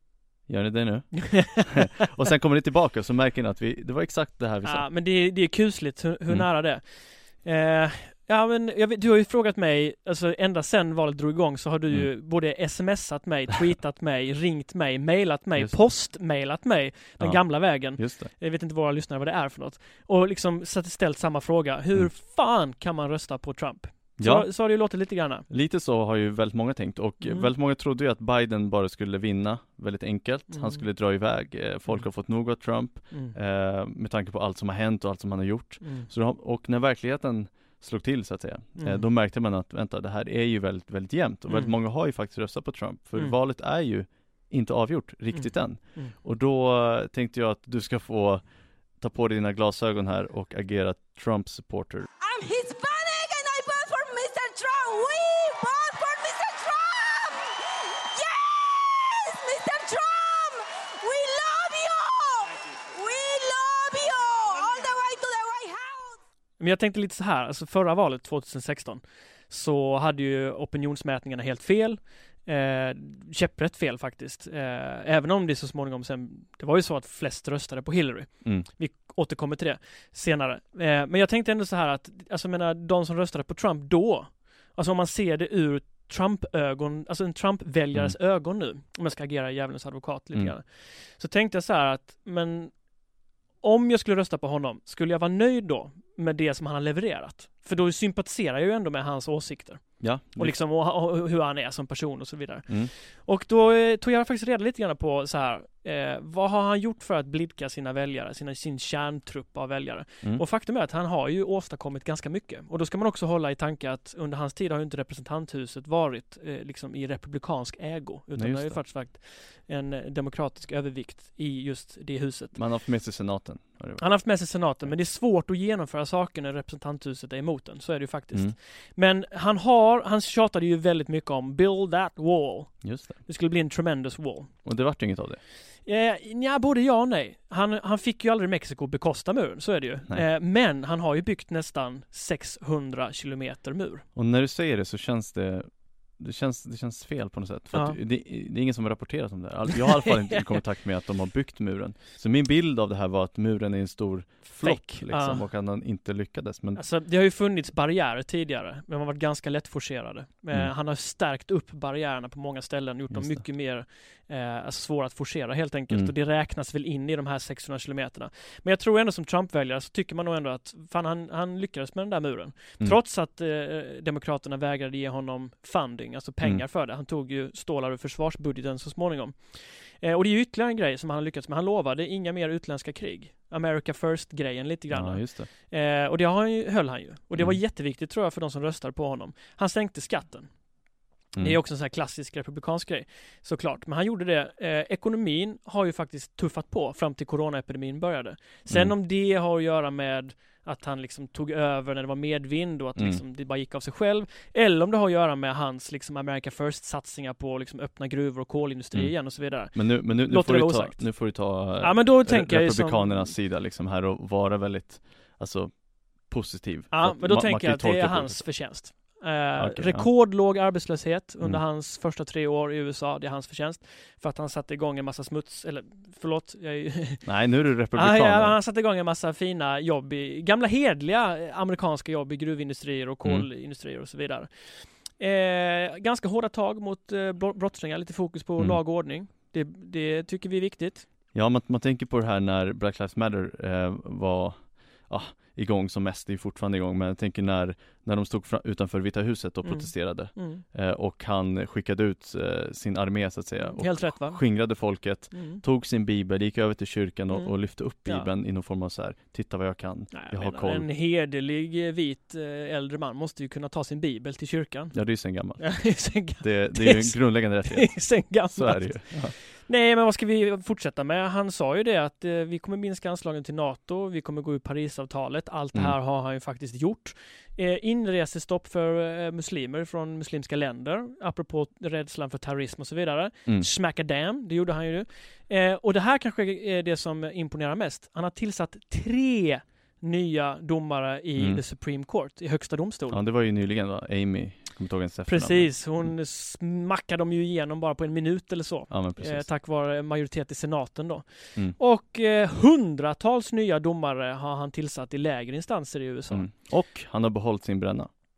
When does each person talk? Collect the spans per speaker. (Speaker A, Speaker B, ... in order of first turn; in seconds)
Speaker A: 0.5-4.9, 17.2-18.3, 24.2-24.5, 25.5-52.1, 100.0-100.6, 118.3-118.8, 122.5-124.9, 132.8-133.2, 134.7-135.4, 144.2-156.8, 163.1-163.4, 184.9-185.5, 198.7-198.9, 203.0-203.2, 208.9-218.7, 219.6-220.1, 227.2-228.6, 241.3-260.9, 264.9-269.4, 291.4-291.6, 293.1-296.1, 298.9-299.5, 306.3-308.1
Speaker B: 1.3-1.6, 4.6-25.5, 27.2-27.5, 30.5-30.8, 35.8-36.1, 38.8-39.1, 41.5-41.7, 45.3-46.1, 66.6-92.8, 93.6-122.6, 124.0-134.5, 135.8-144.0, 147.7-148.0, 149.7-150.6, 154.6-155.5, 156.8-190.5, 191.4-213.3, 216.9-227.3, 227.9-241.1, 249.6-250.6, 253.7-254.7, 255.3-255.6, 257.3-258.3, 260.1-265.0, 265.6-293.2, 295.3-306.5
Speaker C: 52.2-57.6, 58.1-66.2